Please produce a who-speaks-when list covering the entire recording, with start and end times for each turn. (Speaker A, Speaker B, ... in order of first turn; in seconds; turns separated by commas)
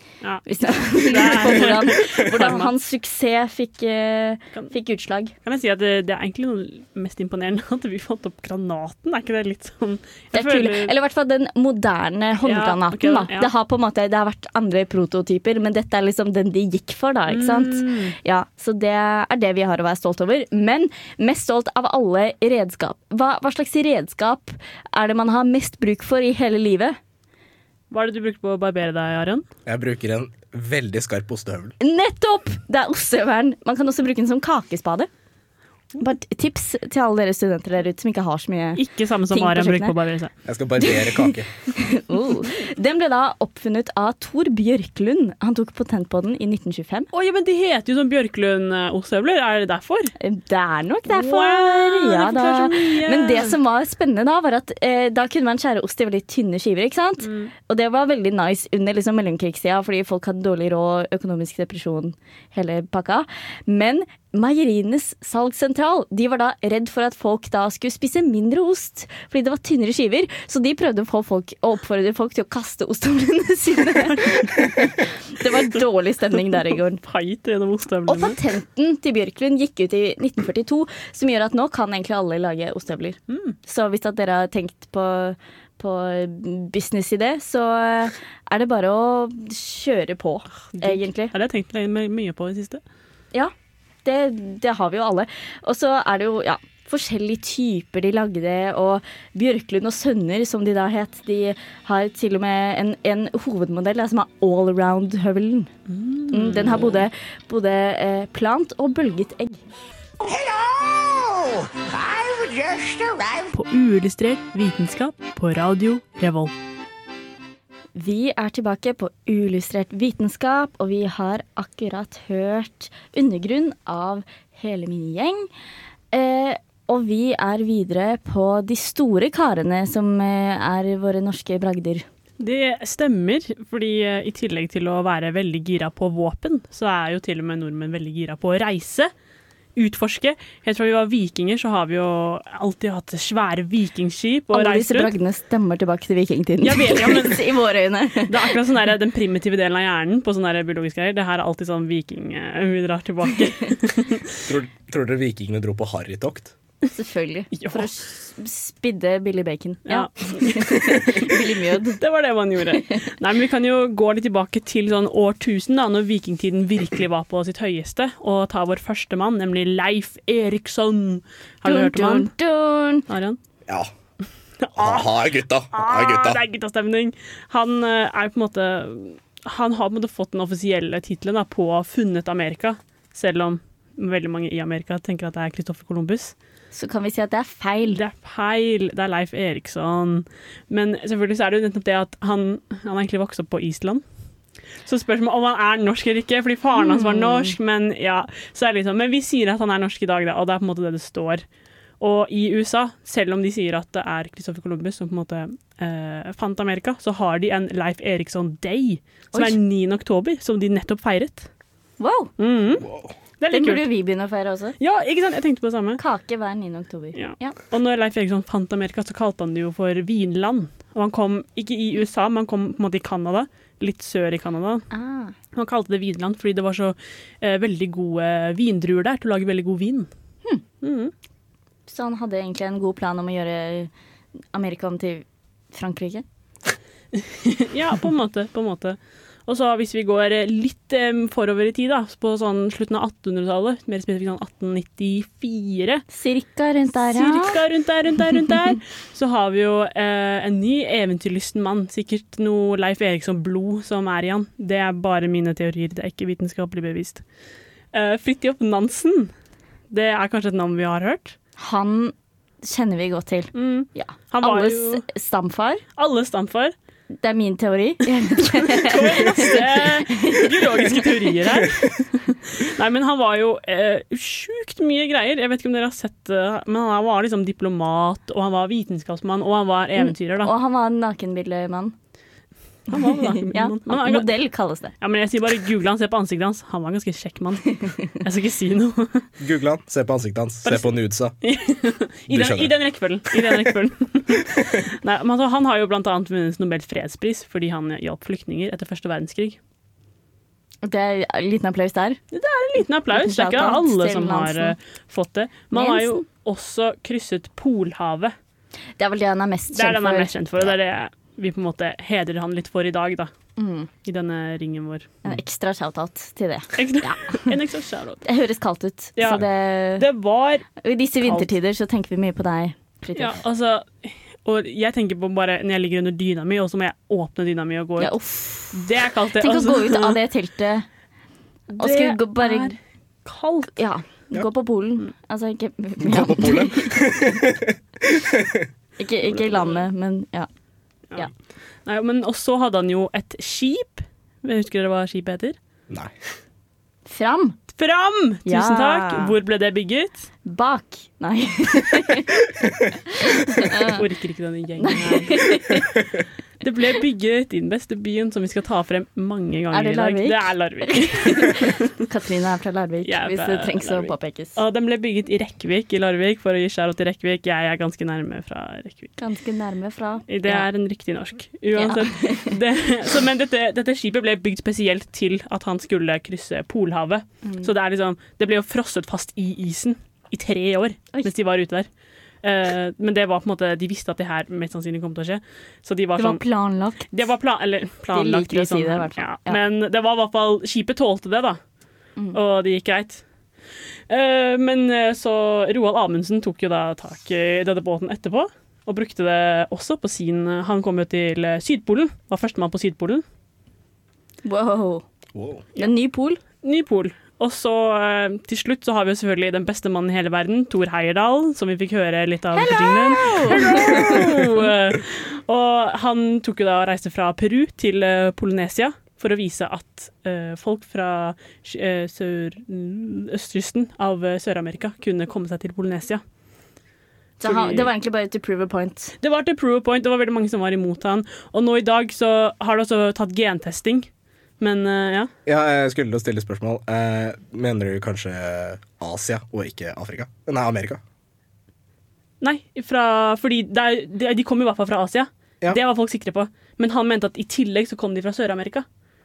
Speaker A: 0.2-2.7, Speaker B: 0.5-5.3, Speaker A: 5.4-10.9, Speaker B: 10.3-27.0, Speaker A: 12.4-13.5, Speaker A: 17.3-18.1, Speaker A: 27.9-29.4, Speaker C: 29.6-31.7, Speaker B: 31.8-35.1, Speaker B: 36.0-39.9, Speaker A: 38.8-40.3, Speaker C: 40.5-41.5, Speaker B: 40.8-47.1, Speaker A: 47.1-50.1, Speaker B: 50.2-77.0, Speaker A: 51.1-53.6, Speaker A: 57.2-57.5, Speaker A: 74.1-74.5, Speaker A: 76.5-78.4, Speaker B: 78.1-91.3, Speaker A: 83.3-83.6, Speaker A: 90.7-92.8, Speaker B: 94.0-105.7, Speaker A: 105.9-107.0, Speaker B: 106.3-109.6, Speaker D: 110.2-113.5, Speaker A: 113.5-116.5, Speaker B: 118.0-125.5, Speaker B: 126.1-132.0, Speaker A: 132.4-139.1, Speaker A: 139.8-145.1, Speaker B: 144.5-148.3, Speaker A: 146.6-147.5, Speaker A: 148.3-154.3, Speaker C: 154.4-156.5, Speaker B: 156.9-162.0, Speaker A: 157.5-157.9, Speaker A: 159.9-161.4, Speaker A: 161.9-172.3, Speaker B: 171.6-173.1, Speaker A: 173.1-173.4, Speaker C: 173.7-173.9, Speaker A: 174.6-186.3, Speaker C: 174.8-176.4, Speaker B: 186.7-188.0, Speaker A: 187.9-194.0, Speaker A: 194.8-201.4, Speaker B: 196.8-197.5, Speaker A: 202.0-211.5, Speaker B: 209.3-209.6, Speaker B: 212.0-212.3, Speaker A: 212.4-212.8, Speaker C: 212.8-213.1, Speaker A: 213.4-213.8, Speaker B: 213.5-214.7, Speaker A: 214.8-216.0, Speaker B: 216.0-217.6, Speaker A: 217.1-224.9, Speaker B: 224.9-225.3, Speaker A: 225.5-230.1, Speaker A: 230.8-231.1, Speaker B: 231.9-233.9, Speaker B: 234.5-236.2, Speaker A: 237.2-246.0, Speaker B: 246.1-247.6, Speaker A: 247.1-257.2, Speaker A: 257.9-259.3, Speaker A: 259.9-261.4, Speaker B: 261.6-265.8, Speaker A: 263.5-265.0, Speaker A: 266.0-266.7, Speaker B: 267.2-270.5, Speaker A: 268.6-280.5, Speaker B: 280.0-281.9, Speaker B: 282.9-284.9, Speaker A: 282.9-284.3, Speaker A: 285.0-289.3, Speaker C: 289.4-291.3, Speaker A: 290.6-299.6, Speaker C: 292.3-292.7, Speaker B: 300.8-302.2, Speaker A: 302.3-308.3, Speaker B: 303.1-304.7, Speaker B: 305.7-306.2, Speaker B: 309.0-310.3, Speaker A: 309.7-313.3, Speaker B: 313.6-313.9, Speaker A: 314.0-315.1, Speaker B: 315.2-317.5, Speaker A: 316.8-318.2, Speaker B: 318.2-320.0, Speaker A: 319.2-319.4, Speaker A: 319.9-321.5, Speaker B: 320.8-323.4, Speaker A: 323.1-328.1, Speaker B: 328.0-328.8, Speaker A: 328.7-330.2, Speaker B: 329.4-330.9, Speaker A: 331.7-333.8, Speaker B: 331.8-332.8, Speaker B: 333.8-336.9, Speaker C: 336.0-338.7, Speaker B: 339.0-340.5, Speaker A: 339.2-339.8, Speaker A: 341.8-345.6, Speaker C: 345.9-346.1, Speaker B: 347.1-347.6, Speaker A: 347.8-350.3, Speaker B: 348.4-349.4, Speaker B: 350.4-352.3, Speaker B: 353.5-354.0, Speaker A: 353.9-355.7, Speaker B: 354.8-355.9, Speaker A: 356.6-361.9, Speaker B: 359.7-364.6, Speaker A: 363.0-369.1, Speaker B: 369.2-370.7, Speaker A: 370.3-381.9, Speaker B: 371.7-372.5, Speaker B: 377.4-377.7, Speaker A: 382.4-386.4, Speaker B: 386.2-387.2, Speaker A: 387.1-391.6, Speaker B: 388.1-389.6, Speaker A: 392.3-393.2, Speaker A: 394.1-403.2, Speaker B: 404.4-405.0, Speaker C: 405.3-405.6, Speaker B: 405.8-406.4, Speaker A: 406.6-426.2, Speaker B: 412.6-414.2, Speaker B: 427.4-429.1, Speaker A: 427.4-427.9, Speaker A: 429.2-435.3, Speaker C: 435.4-441.0, Speaker A: 442.4-448.8